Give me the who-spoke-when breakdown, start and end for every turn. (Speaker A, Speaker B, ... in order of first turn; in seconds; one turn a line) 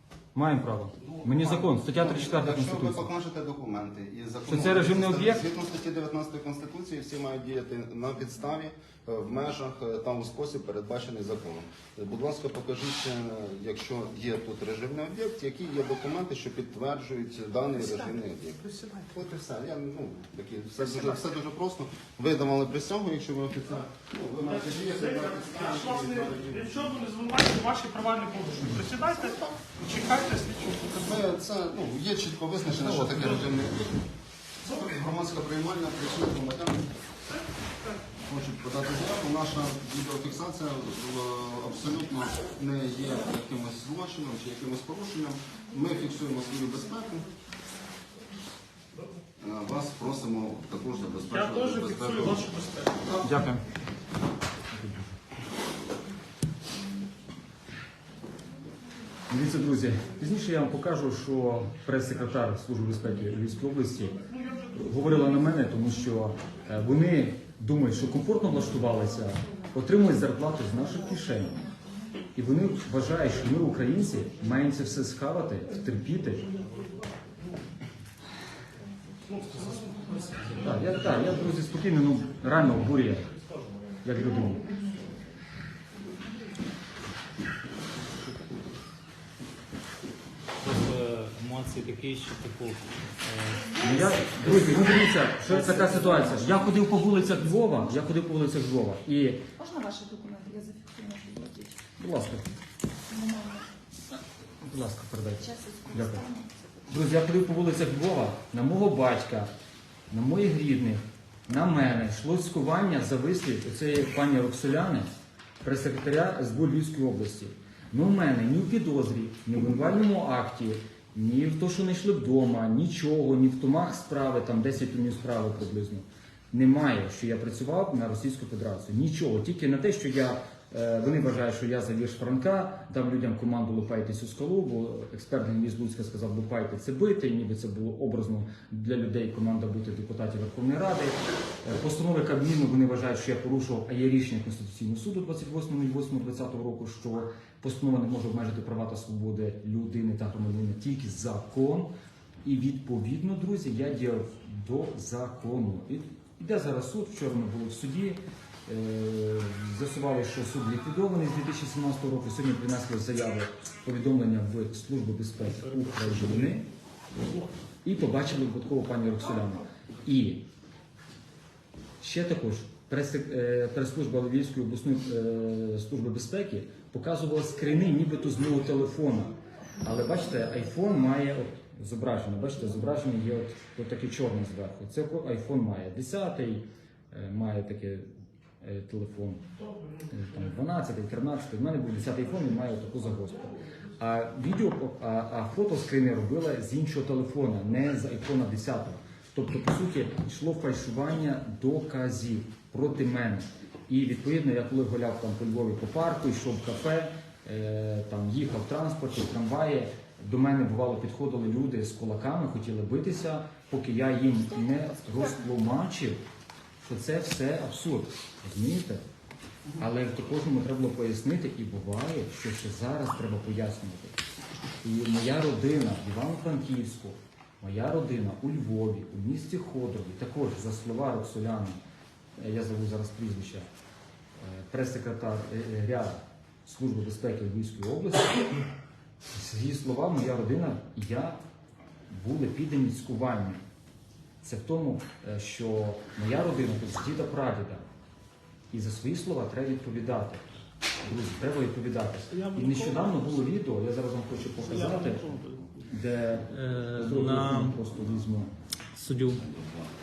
Speaker A: 0.3-3.1
Speaker B: 1.0-18.6
Speaker A: 4.5-5.4
Speaker C: 17.7-19.2
Speaker B: 19.1-26.9
Speaker C: 20.8-21.1
Speaker C: 24.4-31.1
Speaker B: 30.9-33.9
Speaker D: 32.9-33.2
Speaker B: 34.6-36.9
Speaker B: 38.2-47.3
Speaker B: 49.4-52.5
Speaker C: 51.3-53.1
Speaker B: 53.0-53.4
Speaker A: 53.2-53.6
Speaker A: 54.7-55.1
Speaker A: 59.3-64.2
Speaker C: 64.2-64.9
Speaker A: 64.7-71.6
Speaker A: 72.3-76.5
Speaker C: 79.3-81.1
Speaker A: 80.5-83.3
Speaker A: 84.0-84.7
Speaker D: 90.6-93.8
Speaker E: 93.7-94.4
Speaker A: 93.8-99.5
Speaker D: 95.6-96.0
Speaker E: 99.6-101.8
Speaker A: 102.0-102.5
Speaker E: 103.1-103.6
Speaker A: 104.6-106.3
Speaker E: 105.5-106.5
Speaker A: 106.9-109.5
Speaker A: 110.1-115.1
Speaker A: 115.6-151.9
Speaker A: 152.4-166.7
Speaker C: 165.5-166.6
Speaker A: 167.8-170.4
Speaker A: 172.0-188.0
Speaker A: 188.6-189.5
Speaker A: 190.1-216.2
Speaker A: 216.8-219.0
Speaker A: 219.8-224.2
Speaker A: 224.8-231.8
Speaker A: 232.4-233.7
Speaker A: 234.4-238.6
Speaker A: 239.3-241.4
Speaker A: 242.1-243.6
Speaker A: 244.4-247.8
Speaker A: 248.7-250.4
Speaker A: 251.0-255.2
Speaker C: 252.3-253.3
Speaker C: 254.6-255.7
Speaker A: 255.8-258.5
Speaker D: 256.5-257.8
Speaker D: 258.9-259.5